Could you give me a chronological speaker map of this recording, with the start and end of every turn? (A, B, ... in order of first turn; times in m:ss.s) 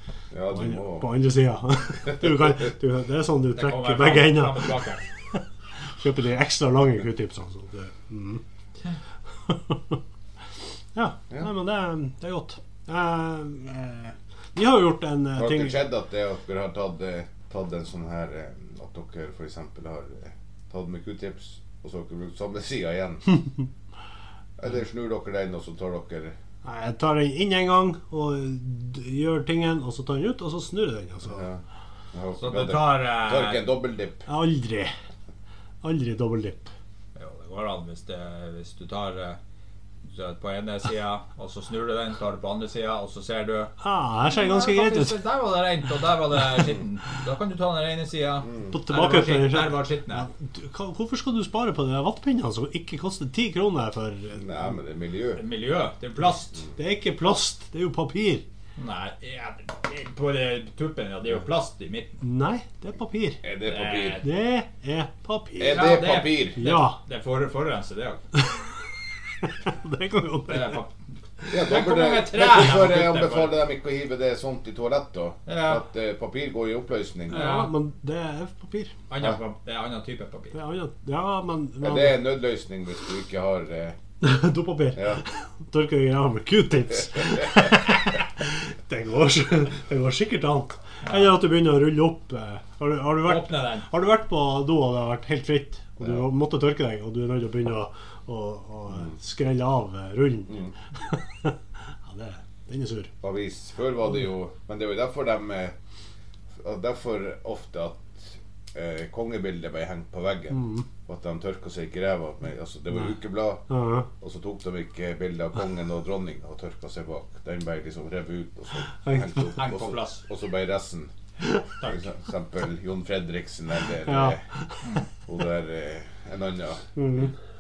0:00.3-0:01.1 A
0:00.5-0:04.7 B
0:03.6-0:05.0 C
0:06.0-0:08.4 B
0:09.5-0:10.0 B
0:11.0-0:15.9 B
0:15.4-0:23.4 A
0:24.6-0:26.4 A
0:26.6-0:31.5 B
0:31.2-0:31.6 A
0:32.1-0:34.3 A
0:32.4-0:33.6 C
0:34.3-0:34.9 B
0:35.8-0:36.7 B
0:37.2-0:39.4 C
0:40.0-0:43.7 C
0:43.8-0:45.2 B
0:44.3-0:50.3 C
0:48.6-0:54.6 B
0:54.4-0:55.4 A
0:55.4-0:56.6 C
0:56.8-0:58.4 B
0:58.8-1:02.2 C
1:02.2-1:03.4 B
1:03.4-1:04.2 A
1:03.6-1:04.3 C
1:04.2-1:05.8 B
1:05.6-1:06.6 A
1:05.7-1:08.2 C
1:06.6-1:07.0 B
1:09.4-1:10.8 B
1:10.5-1:13.6 C
1:11.5-1:17.4 A
1:15.5-1:15.8 C
1:17.3-1:18.9 B
1:17.3-1:17.7 C
1:19.1-1:20.6 C
1:20.5-1:22.3 B
1:21.8-1:24.0 A
1:24.2-1:43.1 B
1:24.9-1:25.2 A
1:31.1-1:31.4 C
1:33.2-1:33.9 C
1:43.2-1:45.7 A
1:46.6-2:01.1 A
1:50.5-1:50.9 B
1:53.7-1:54.1 B
1:59.0-1:59.6 B
1:59.6-2:00.2 C
2:01.8-2:04.5 A
2:04.0-2:04.8 B
2:05.3-2:06.8 A
2:07.0-2:07.3 B